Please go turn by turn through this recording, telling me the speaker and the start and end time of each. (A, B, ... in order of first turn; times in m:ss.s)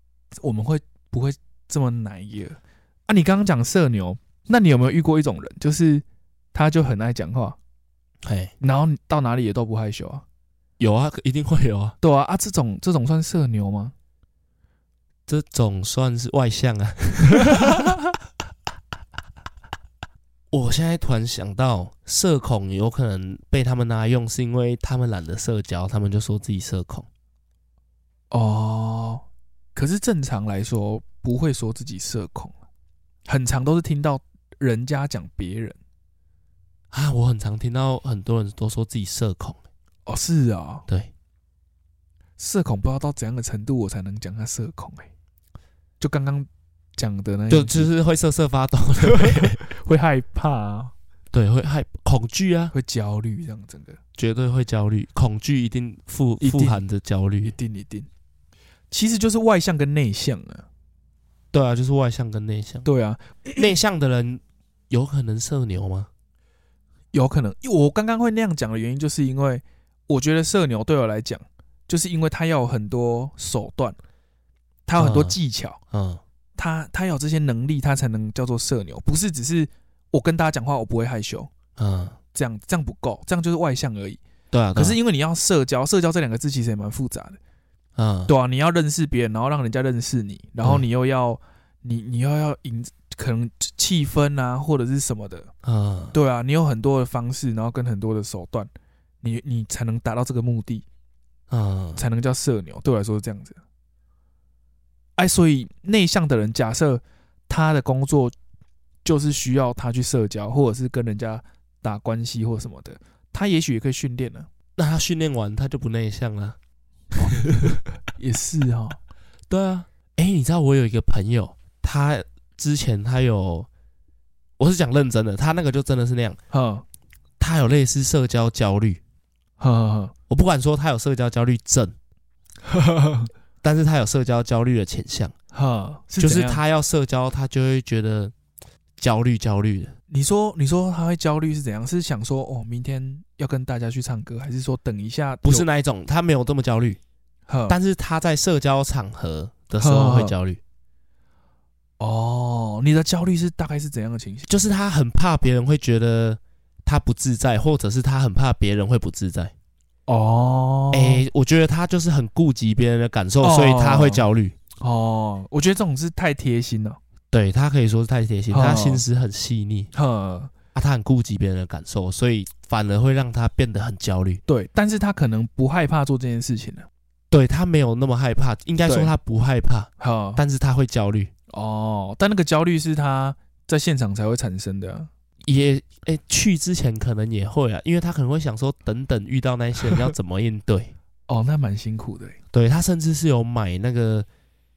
0:00.4-0:07.6 A
0:08.2-0:08.5 B
0:08.6-0:10.2 A
0:10.8-0:12.0 B
0:12.0-0:13.9 A
0:15.3-0:18.0 B
0:20.5-0:27.1 B
0:28.3-0:32.5 A
0:33.3-0:35.8 A
0:36.9-0:39.6 B
0:40.1-0:40.9 A
0:42.4-0:45.1 A
0:46.0-0:47.9 A
0:47.5-0:49.6 B
0:49.0-0:50.9 A
0:51.3-0:52.7 B
0:52.7-0:54.0 A
0:54.2-0:57.6 B
0:56.4-0:56.8 A
0:57.4-0:58.1 A
0:58.9-1:00.7 A
1:01.5-1:02.9 B
1:02.8-1:03.7 A
1:03.6-1:06.1 B
1:07.1-1:14.0 A
1:14.9-1:15.8 A
1:15.0-1:15.4 B
1:15.9-1:16.2 B
1:16.6-1:21.5 A
1:21.8-1:22.2 B
1:22.3-1:24.2 A
1:24.5-1:25.0 B
1:24.8-1:27.4 A
1:28.0-1:28.3 B
1:28.3-1:35.5 A
1:35.6-1:36.2 B
1:36.1-1:38.7 A
1:39.2-1:40.8 A
1:41.5-1:42.0 B
1:42.0-1:43.6 A
1:45.2-1:48.3 A
1:49.0-1:54.5 A
1:54.8-1:56.6 B
1:57.2-1:59.0 A
1:59.5-2:03.7 B
2:04.6-2:06.4 B
2:06.5-2:06.8 A
2:07.4-2:09.0 B
2:09.6-2:10.1 A
2:10.3-2:12.0 B
2:12.7-2:13.3 A
2:13.6-2:15.4 B
2:15.5-2:16.6 A
2:16.2-2:18.3 B
2:19.0-2:19.9 B
2:20.1-2:25.7 A
2:25.4-2:27.0 B
2:27.5-2:27.8 A
2:27.7-2:30.6 B
2:29.8-2:30.3 A
2:32.0-2:34.5 A
2:34.5-2:39.5 B
2:40.1-2:41.2 A
2:40.9-2:44.6 B
2:43.4-2:44.2 A
2:44.8-2:47.0 A
2:47.3-2:49.9 B
2:48.5-2:49.0 A
2:49.9-2:50.5 A
2:50.8-2:54.4 B
2:54.5-2:56.9 A
2:57.3-3:01.3 B
2:58.9-2:59.1 A
3:00.0-3:00.4 A
3:01.5-3:05.1 A
3:05.4-3:10.9 B
3:11.3-3:12.4 A
3:12.5-3:14.3 B